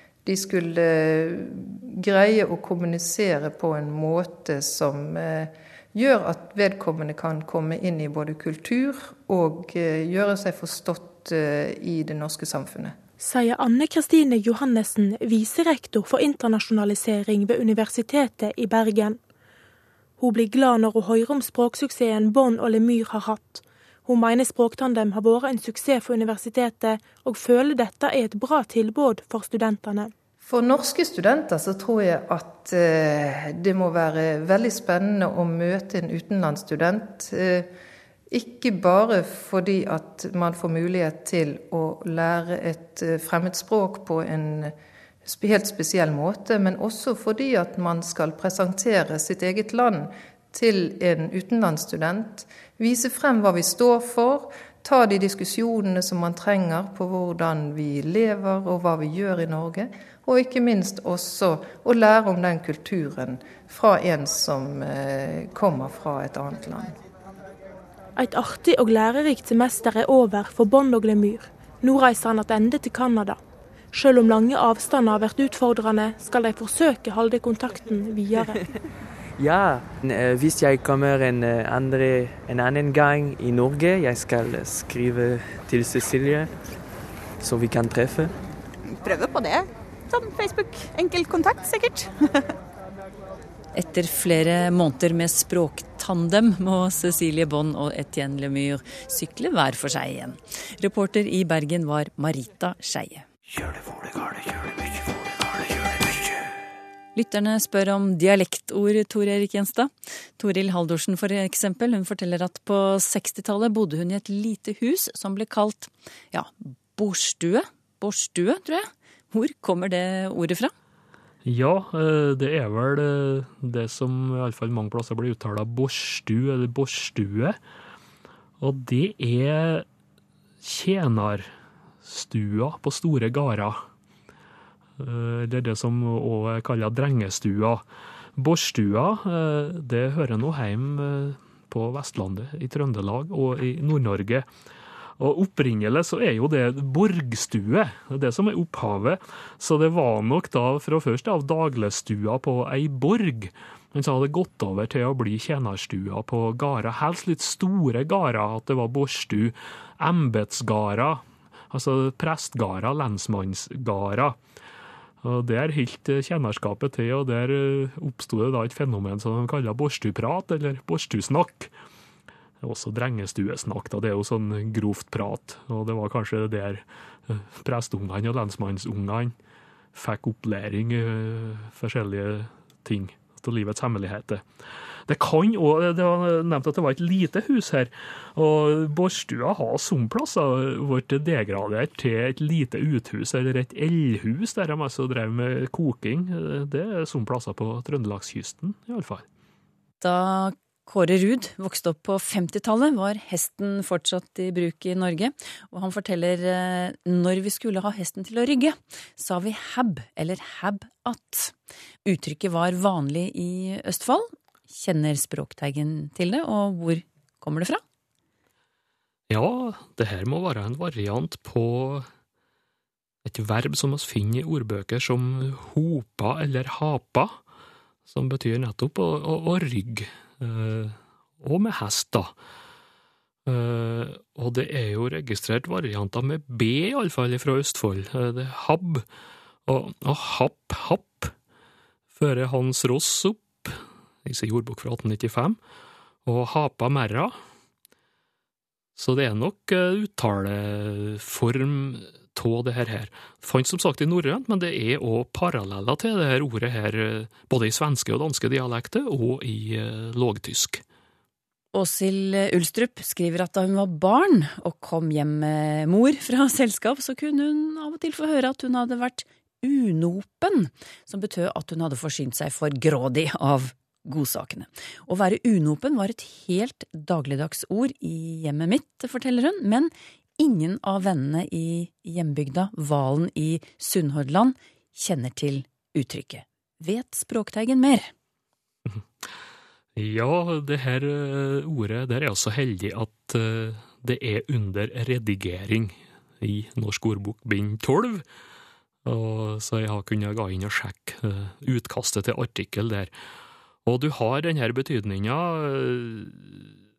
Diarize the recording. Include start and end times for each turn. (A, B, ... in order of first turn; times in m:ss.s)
0:00.2-0:13.0 A
0:13.2-0:19.2 B
0:20.2-0:30.1 B
0:30.4-0:37.7 A
0:38.3-1:07.0 A
1:08.2-1:13.4 B
1:13.9-1:18.6 B
1:19.4-1:26.5 C
1:27.4-1:28.4 C
1:29.0-1:32.5 D
1:33.7-1:43.3 E
1:47.2-2:00.7 E
2:01.4-2:07.6 F
2:08.6-2:09.8 F
2:10.6-2:11.5 F
2:12.0-2:13.8 F
2:15.0-2:17.8 F
2:18.4-2:24.5 F
2:25.2-2:44.4 F
2:45.2-2:51.7 F
2:52.6-2:59.4 F
2:59.9-3:04.4 F
3:05.1-3:19.2 F
3:20.0-3:31.5 E
3:32.0-3:37.8 E
3:39.3-3:42.1 F
3:43.2-3:47.4 F
3:48.1-3:52.3 F
3:53.5-3:59.0 F
3:59.7-4:01.3 F
4:02.2-4:05.6 F
4:06.3-4:07.4 F
4:09.0-4:20.8 F
4:21.7-4:48.1 E
4:48.9-4:49.3 F
4:50.0-4:58.2 F
4:59.0-5:03.1 F
5:03.8-5:06.6 F